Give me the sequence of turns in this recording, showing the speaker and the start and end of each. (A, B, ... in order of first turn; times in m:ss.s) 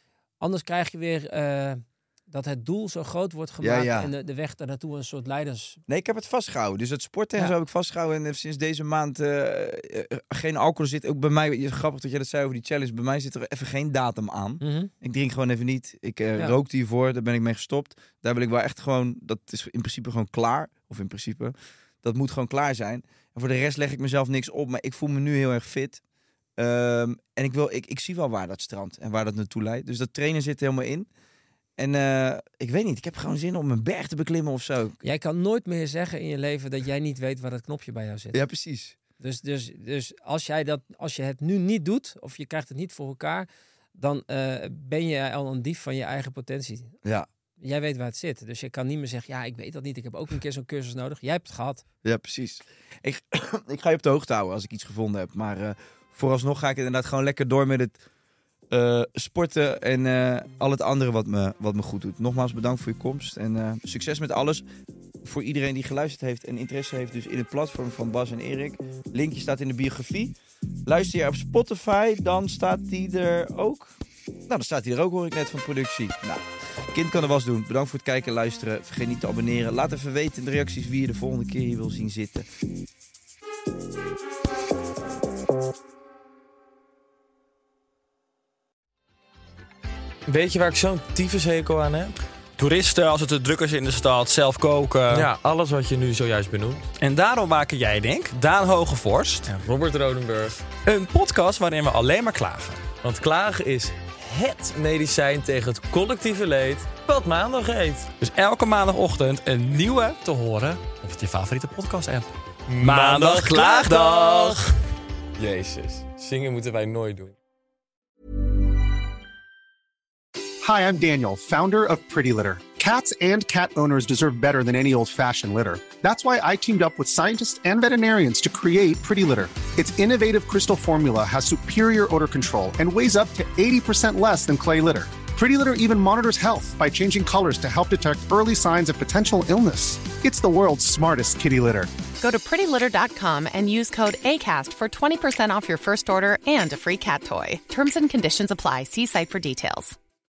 0:00.4-0:05.8 A
0:03.6-0:04.1 B
0:05.9-0:26.0 B
0:14.6-0:14.9 A
0:26.6-0:31.1 B
0:31.8-0:35.0 B
0:35.0-0:38.4 A
0:38.3-0:39.0 B
0:39.2-0:47.0 A
0:47.6-0:51.8 A
0:52.0-0:58.0 B
0:58.7-1:04.6 B
1:05.2-1:22.5 B
1:30.3-1:32.1 C
1:32.6-1:35.3 D
1:35.1-1:36.9 C
1:36.9-1:39.6 D
1:39.5-1:40.6 C
1:40.8-1:42.9 D
1:43.0-1:48.1 C
1:48.1-1:54.6 D
1:50.3-1:50.7 C
1:52.7-1:54.0 C
1:52.9-1:54.6 B
1:55.4-1:57.4 C
2:00.6-2:21.9 E
2:22.2-2:30.0 F